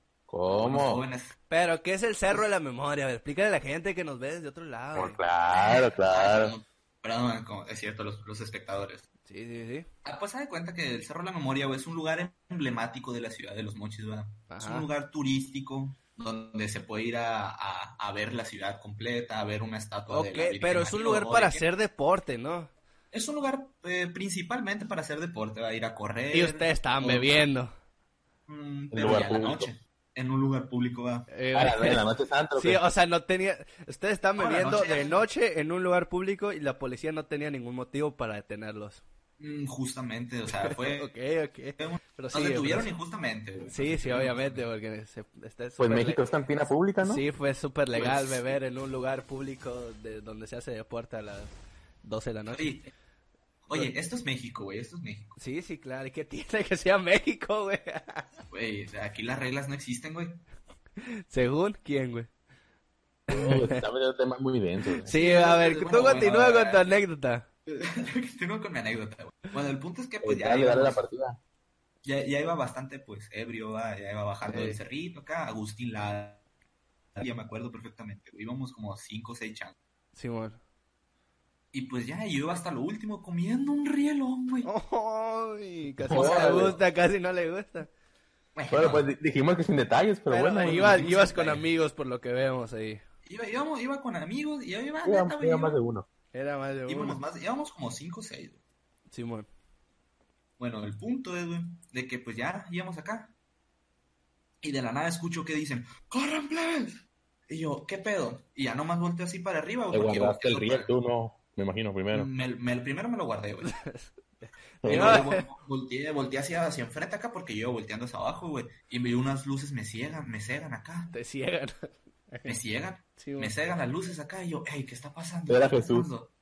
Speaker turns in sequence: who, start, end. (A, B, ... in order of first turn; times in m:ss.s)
0:00.3-0:01.0 A
0:00.5-0:01.4 B
0:01.5-0:05.2 C
0:05.0-0:06.6 A
0:05.5-0:09.1 B
0:09.2-0:09.9 C
0:10.0-0:21.6 B
0:14.5-0:14.9 C
0:20.1-0:22.7 C
0:23.1-0:27.5 B
0:26.3-0:27.7 C
0:28.5-0:31.3 B
0:28.9-0:29.7 A
0:31.3-0:32.0 C
0:31.5-0:32.8 A
0:32.6-0:39.0 C
0:34.4-0:35.2 B
0:39.4-0:41.1 B
0:40.6-0:42.9 C
0:41.8-0:44.6 B
0:43.7-0:46.2 C
0:45.8-0:47.2 A
0:47.0-0:52.8 C
0:47.9-0:48.5 B
0:52.5-0:52.9 B
0:53.7-0:55.4 B
0:55.4-0:58.3 C
0:58.5-1:00.4 B
1:01.0-1:02.3 C
1:03.3-1:03.8 C
1:03.3-1:05.1 A
1:05.0-1:07.5 C
1:05.1-1:06.8 B
1:07.7-1:11.0 B
1:10.2-1:11.4 A
1:12.0-1:16.4 B
1:14.5-1:14.8 C
1:17.2-1:19.8 B
1:20.2-1:20.6 C
1:21.7-1:24.7 B
1:24.6-1:27.9 C
1:26.1-1:26.8 A
1:26.1-1:26.8 B
1:28.6-1:29.1 B
1:28.7-1:31.0 A
1:30.3-1:33.0 C
1:30.6-1:31.6 B
1:33.2-1:35.8 B
1:35.0-1:36.1 A
1:36.3-1:37.2 C
1:36.9-1:38.6 B
1:39.1-1:39.5 C
1:40.6-1:43.3 B
1:44.6-1:50.9 B
1:49.9-1:52.3 A
1:52.1-1:53.7 B
1:53.6-1:55.4 C
1:54.8-1:55.2 A
1:54.8-2:01.1 B
2:01.1-2:02.6 C
2:02.5-2:06.3 B
2:03.2-2:03.5 C
2:05.5-2:06.1 A